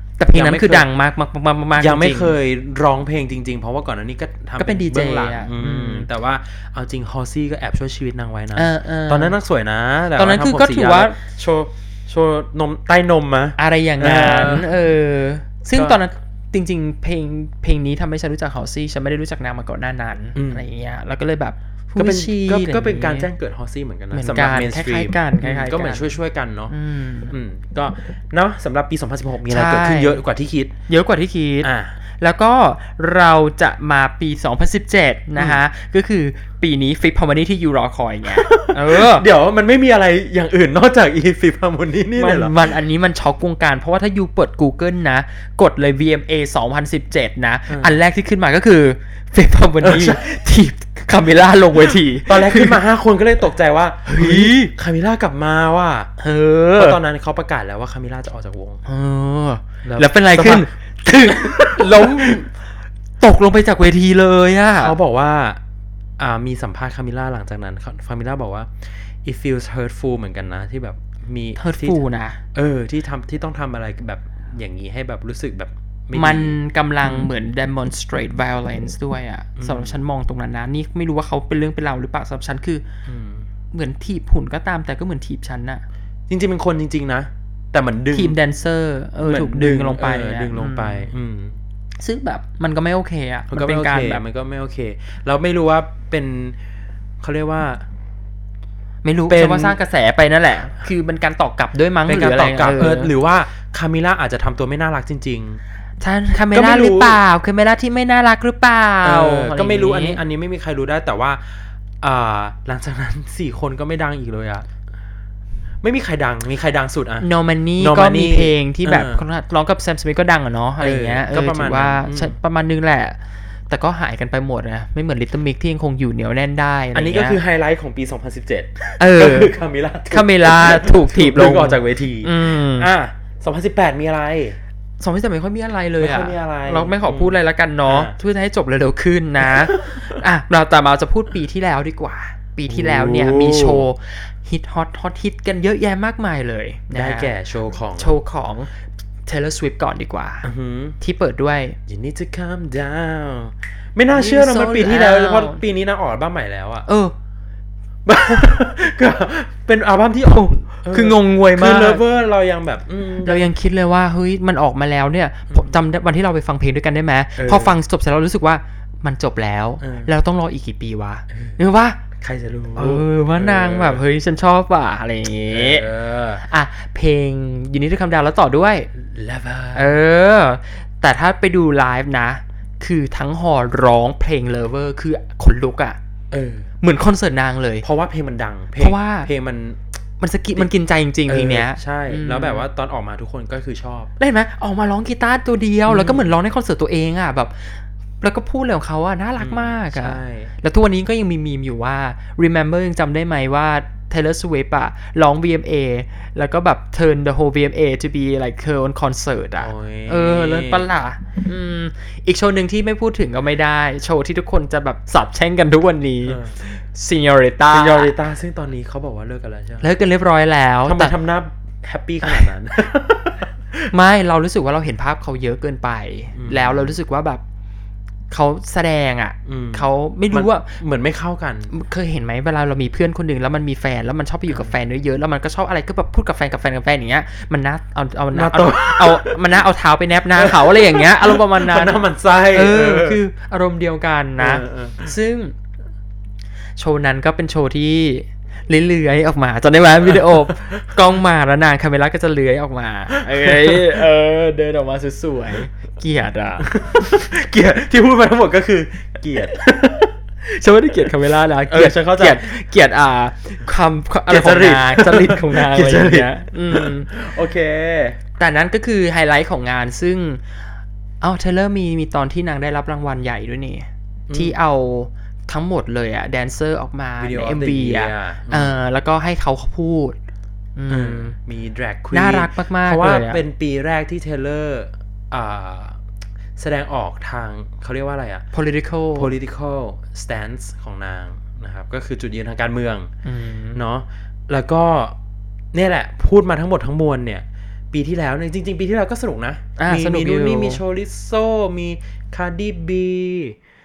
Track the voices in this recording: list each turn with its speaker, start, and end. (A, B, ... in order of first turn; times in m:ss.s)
0:00.2-0:02.3 A
0:00.3-0:00.9 B
0:01.8-0:14.7 B
0:04.6-0:06.1 A
0:08.5-0:09.4 A
0:10.2-0:11.2 A
0:13.6-0:23.3 A
0:15.7-0:16.0 B
0:20.3-0:20.6 B
0:22.0-0:26.7 B
0:24.1-0:26.1 A
0:26.7-0:27.3 A
0:27.3-0:30.7 B
0:29.5-0:30.2 A
0:30.9-0:39.2 A
0:31.6-0:32.0 B
0:35.4-0:35.6 B
0:38.2-0:42.6 B
0:42.1-0:52.8 A
0:47.7-0:48.0 B
0:49.8-0:50.2 B
0:51.8-0:56.1 B
0:54.0-0:54.7 A
0:56.2-0:57.0 A
0:56.8-0:58.8 B
0:58.8-1:02.5 A
0:59.8-1:00.7 B
1:01.2-1:02.4 B
1:03.2-1:05.0 A
1:04.8-1:05.6 B
1:06.2-1:12.0 B
1:11.6-1:12.4 A
1:12.5-1:17.3 B
1:16.1-1:22.8 A
1:19.6-1:20.0 B
1:23.0-1:23.4 B
1:23.7-1:25.8 A
1:26.3-1:28.4 B
1:28.1-1:31.1 A
1:29.2-1:31.6 B
1:32.0-1:34.2 A
1:33.5-1:36.6 B
1:37.2-1:37.8 B
1:39.0-1:43.1 A
1:39.3-1:39.8 B
1:42.1-1:45.6 B
1:46.0-1:50.2 A
1:46.5-1:47.2 B
1:49.0-1:54.7 B
1:55.8-1:59.2 B
1:57.2-2:03.2 A
2:00.8-2:02.4 B
2:03.7-2:07.4 A
2:06.9-2:14.6 B
2:09.0-2:09.5 A
2:10.1-2:12.9 A
2:15.0-2:27.3 A
2:16.0-2:18.1 B
2:19.4-2:20.2 B
2:22.7-2:23.8 B
2:26.9-2:28.1 B
2:28.0-2:28.7 A
2:29.2-2:30.5 A
2:30.4-2:31.0 B
2:31.0-2:31.8 A
2:31.9-2:36.8 B
2:34.1-2:35.6 A
2:36.9-2:37.1 A
2:38.0-2:43.5 B
2:40.2-2:42.0 A
2:43.2-2:52.0 A
2:45.5-2:45.8 B
2:47.4-2:47.7 B
2:49.8-2:50.1 B
2:51.3-2:51.6 B
2:52.2-2:54.0 B
2:52.8-2:55.9 A
2:55.5-2:56.4 B
2:56.4-2:58.9 A
2:59.0-3:00.0 B
2:59.7-3:06.0 A
3:06.3-3:06.7 B
3:06.8-3:07.8 A
3:07.8-3:09.8 B
3:08.8-3:09.3 A
3:10.2-3:12.7 A
3:11.3-3:14.1 B
3:14.2-3:38.1 A
3:15.9-3:16.3 B
3:19.4-3:20.5 B
3:29.6-3:30.9 B
3:36.2-3:36.6 B
3:37.7-3:39.9 B
3:39.8-3:41.1 A
3:40.8-3:43.9 B
3:42.2-3:42.5 A
3:43.9-3:47.4 A
3:46.4-3:47.0 B
3:48.3-3:50.8 A
3:49.4-3:51.7 B
3:51.7-4:05.5 A
3:54.5-3:54.7 B
3:58.3-3:59.4 B
4:00.3-4:03.2 B
4:04.4-4:05.1 B
4:06.8-4:17.2 A
4:10.0-4:10.5 B
4:13.2-4:14.0 B
4:16.6-4:20.1 B
4:20.4-4:27.1 A
4:21.7-4:22.5 B
4:24.3-4:28.2 B
4:28.4-4:30.4 A
4:31.2-4:40.2 A
4:34.3-4:34.6 B
4:37.2-4:38.8 B
4:40.8-4:41.3 A
4:40.9-4:46.0 B
4:42.1-4:43.4 A
4:46.6-4:48.4 B
4:48.5-4:49.3 A
4:49.1-4:53.1 B
4:53.2-4:53.8 A
4:53.7-4:55.2 B
4:55.7-5:03.6 B
4:59.8-5:00.8 A